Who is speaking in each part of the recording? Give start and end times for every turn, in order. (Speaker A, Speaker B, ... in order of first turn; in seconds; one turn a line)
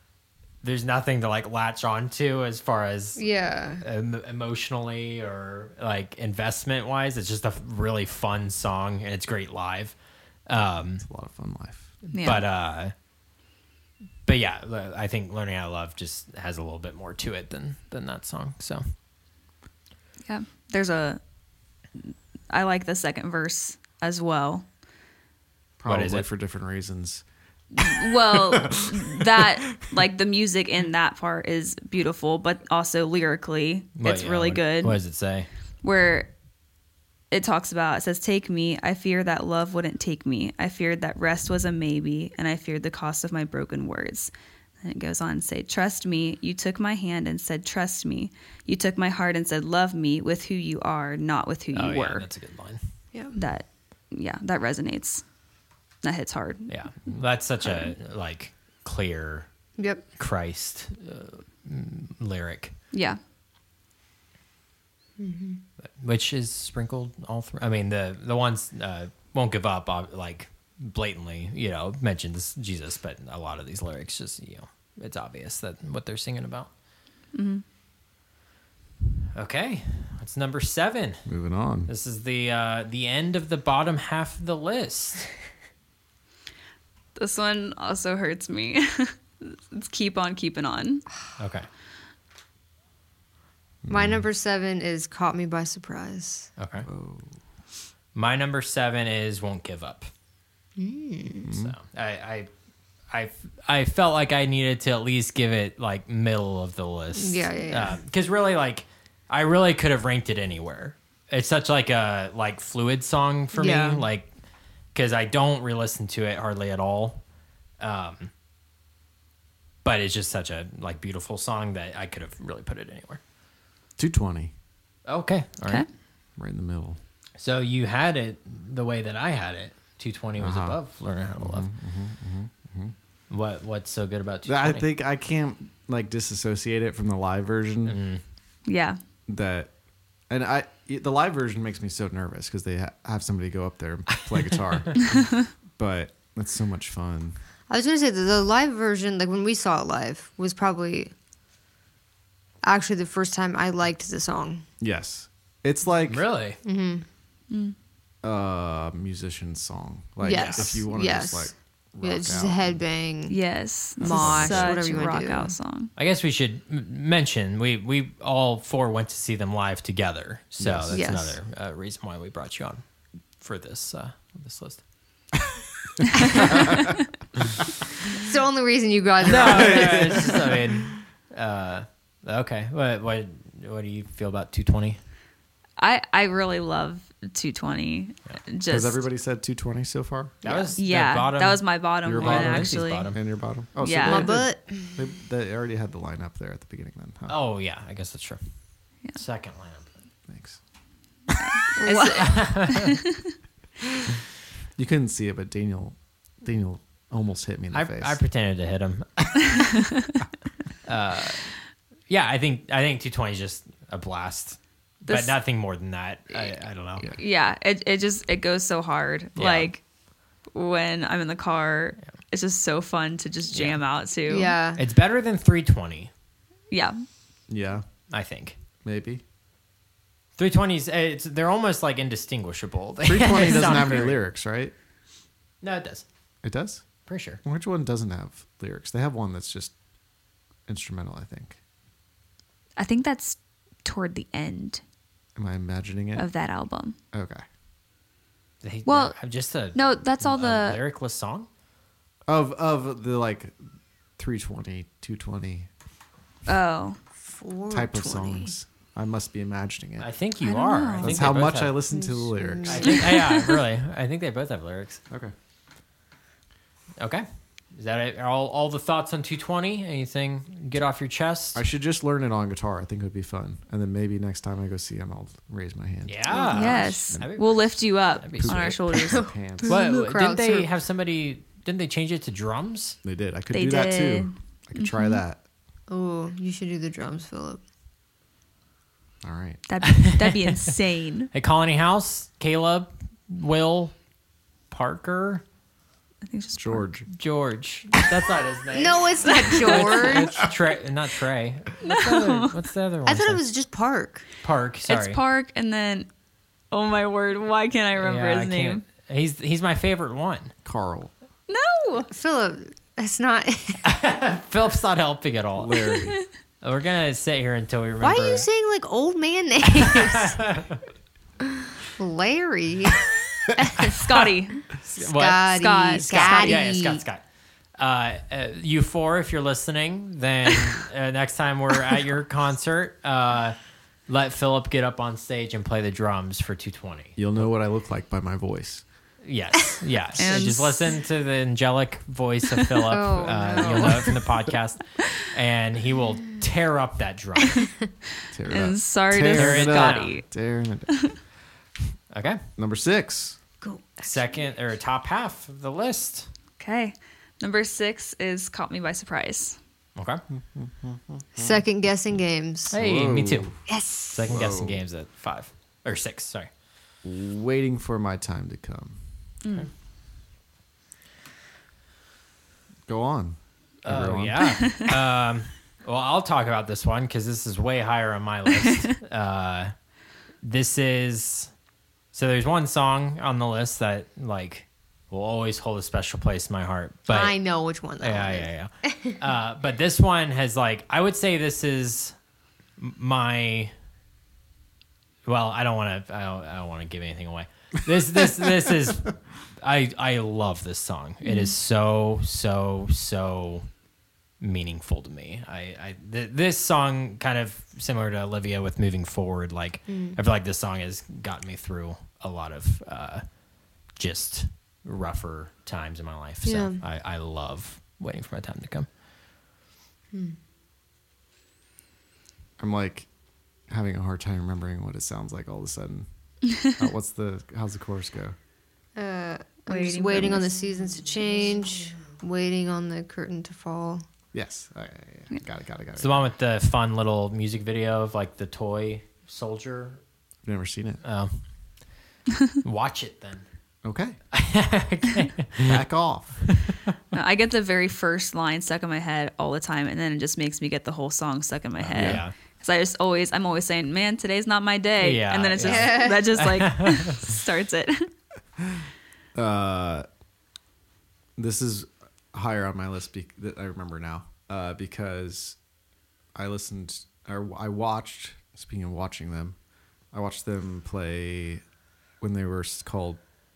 Speaker A: 0.6-9.9
Speaker B: 3.1-3.8
Speaker A: 10.5-11.0
Speaker C: 11.0-11.9
Speaker D: 12.1-12.4
Speaker A: 12.1-12.9
Speaker A: 14.2-18.8
Speaker D: 20.2-21.2
Speaker D: 21.9-24.6
Speaker C: 25.8-27.2
Speaker A: 25.9-26.3
Speaker C: 27.8-29.4
Speaker D: 27.8-35.0
Speaker A: 34.0-35.5
Speaker D: 35.8-36.3
Speaker D: 37.3-44.3
Speaker D: 44.8-52.2
Speaker A: 51.7-52.8
Speaker D: 53.3-55.2
Speaker D: 56.0-56.7
Speaker A: 56.7-59.5
Speaker B: 59.8-60.0
Speaker A: 60.2-62.7
Speaker D: 62.9-63.2
Speaker B: 65.2-65.6
Speaker A: 66.0-76.7
Speaker D: 77.3-77.6
Speaker A: 79.3-81.2
Speaker C: 81.2-81.9
Speaker A: 81.9-85.2
Speaker D: 87.1-91.0
Speaker A: 91.4-91.7
Speaker C: 93.8-94.2
Speaker B: 93.9-96.5
Speaker A: 96.6-96.9
Speaker C: 96.8-97.3
Speaker A: 98.1-100.1
Speaker B: 100.8-101.5
Speaker C: 101.4-101.8
Speaker A: 101.5-102.5
Speaker A: 103.1-114.3
Speaker B: 107.2-108.0
Speaker B: 113.5-114.0
Speaker A: 114.9-117.2
Speaker A: 117.8-118.3
Speaker A: 119.8-123.2
Speaker C: 124.0-124.5
Speaker A: 125.0-125.8
Speaker C: 126.4-127.0
Speaker A: 127.4-131.7
Speaker C: 130.4-130.8
Speaker C: 131.4-132.9
Speaker A: 133.3-134.9
Speaker C: 134.4-138.0
Speaker A: 137.8-138.2
Speaker D: 138.7-139.0
Speaker C: 139.3-139.7
Speaker C: 140.3-147.4
Speaker A: 144.2-145.1
Speaker B: 147.7-151.1
Speaker B: 152.6-154.6
Speaker C: 154.8-156.2
Speaker A: 156.1-156.6
Speaker B: 156.6-157.0
Speaker D: 157.5-157.7
Speaker C: 158.2-162.8
Speaker B: 160.2-163.4
Speaker A: 160.3-160.7
Speaker D: 163.3-165.9
Speaker B: 164.0-165.5
Speaker C: 164.0-164.8
Speaker A: 165.9-172.8
Speaker C: 170.6-171.0
Speaker B: 170.9-171.4
Speaker A: 173.4-174.8
Speaker B: 178.1-180.4
Speaker A: 179.2-185.0
Speaker C: 179.4-180.3
Speaker D: 185.8-189.0
Speaker C: 188.7-190.3
Speaker B: 190.4-190.7
Speaker A: 190.4-191.7
Speaker D: 190.7-193.1
Speaker C: 192.0-197.3
Speaker A: 192.2-193.2
Speaker D: 193.8-194.3
Speaker B: 194.0-195.0
Speaker A: 197.3-198.4
Speaker A: 199.1-199.9
Speaker C: 200.3-200.6
Speaker D: 201.4-203.3
Speaker B: 201.8-202.3
Speaker A: 202.1-203.0
Speaker C: 204.8-208.2
Speaker A: 207.7-209.6
Speaker D: 209.6-210.1
Speaker A: 210.8-211.5
Speaker A: 212.1-217.1
Speaker D: 215.1-215.3
Speaker D: 217.0-219.8
Speaker A: 219.3-219.7
Speaker D: 220.5-224.5
Speaker A: 223.5-223.8
Speaker B: 224.3-224.8
Speaker A: 224.8-226.1
Speaker D: 226.7-227.0
Speaker C: 227.5-227.8
Speaker A: 228.1-228.6
Speaker C: 228.8-229.2
Speaker A: 230.4-234.2
Speaker C: 233.0-234.7
Speaker A: 235.6-236.1
Speaker C: 236.4-236.8
Speaker A: 237.1-237.4
Speaker C: 237.4-239.7
Speaker C: 240.7-241.6
Speaker D: 242.8-244.8
Speaker C: 245.4-246.3
Speaker D: 246.2-246.9
Speaker C: 247.1-247.4
Speaker A: 248.6-251.5
Speaker D: 248.8-249.2
Speaker D: 249.7-250.8
Speaker C: 252.3-253.6
Speaker C: 254.2-255.7
Speaker D: 256.4-257.0
Speaker B: 257.2-258.5
Speaker C: 257.7-260.1
Speaker A: 260.0-261.8
Speaker D: 260.4-261.2
Speaker C: 261.0-263.0
Speaker B: 261.9-263.2
Speaker A: 262.6-265.0
Speaker A: 267.0-271.6
Speaker C: 271.5-277.3
Speaker A: 276.0-278.8
Speaker B: 276.3-276.8
Speaker D: 276.5-279.3
Speaker C: 278.4-279.8
Speaker B: 279.0-280.7
Speaker A: 279.6-283.0
Speaker C: 283.0-285.4
Speaker D: 283.5-285.2
Speaker B: 285.9-287.6
Speaker C: 289.2-289.6
Speaker D: 289.7-291.3
Speaker A: 289.8-290.7
Speaker A: 291.3-293.9
Speaker A: 294.7-295.4
Speaker D: 296.2-296.9
Speaker C: 296.6-297.1
Speaker A: 297.1-303.4
Speaker B: 298.7-300.4
Speaker D: 299.3-300.1
Speaker D: 301.8-302.5
Speaker B: 303.1-304.2
Speaker A: 304.4-305.2
Speaker D: 304.9-306.1
Speaker D: 306.7-308.8
Speaker A: 308.0-310.5
Speaker C: 310.6-311.1
Speaker D: 311.5-312.1
Speaker B: 312.1-313.8
Speaker A: 313.8-315.9
Speaker C: 315.6-316.2
Speaker A: 316.6-318.5
Speaker B: 318.0-320.4
Speaker A: 319.9-320.8
Speaker B: 321.9-323.1
Speaker D: 323.7-324.7
Speaker A: 324.8-327.2
Speaker B: 325.0-327.0
Speaker D: 325.5-326.6
Speaker A: 327.8-333.6
Speaker A: 334.1-337.5
Speaker C: 337.2-338.8
Speaker A: 339.2-347.7
Speaker D: 340.2-341.0
Speaker B: 342.9-344.1
Speaker C: 348.3-351.1
Speaker D: 348.4-350.2
Speaker A: 349.3-350.2
Speaker A: 352.1-352.4
Speaker C: 352.6-353.4
Speaker B: 353.6-354.2
Speaker A: 354.0-356.3
Speaker D: 356.6-359.6
Speaker A: 359.9-360.2
Speaker C: 360.3-361.6
Speaker B: 361.4-362.7
Speaker A: 362.7-363.5
Speaker C: 362.7-363.6
Speaker B: 363.7-364.2
Speaker A: 364.1-366.5
Speaker C: 364.3-364.8
Speaker C: 367.0-369.0
Speaker C: 372.9-374.4
Speaker A: 373.8-379.7
Speaker A: 380.4-381.5
Speaker A: 382.1-387.4
Speaker B: 387.1-389.1
Speaker A: 388.0-392.1
Speaker A: 392.8-393.7
Speaker A: 395.2-403.7
Speaker D: 401.2-401.5
Speaker A: 404.4-413.2
Speaker B: 409.9-410.2
Speaker A: 413.9-418.9
Speaker B: 416.4-416.8
Speaker C: 422.6-423.1
Speaker C: 423.7-426.1
Speaker C: 426.6-428.3
Speaker B: 428.9-434.0
Speaker D: 429.7-430.5
Speaker C: 434.3-436.3
Speaker A: 436.0-440.0
Speaker C: 440.4-441.0
Speaker A: 441.0-441.4
Speaker A: 442.6-443.4
Speaker C: 443.8-444.2
Speaker A: 444.3-445.8
Speaker C: 445.6-446.4
Speaker A: 446.5-446.8
Speaker D: 447.1-458.1
Speaker A: 451.8-452.3
Speaker C: 451.9-452.2
Speaker A: 455.0-457.2
Speaker B: 455.6-456.4
Speaker C: 458.6-460.1
Speaker C: 461.4-465.6
Speaker C: 466.3-469.6
Speaker C: 470.1-471.6
Speaker C: 472.2-473.2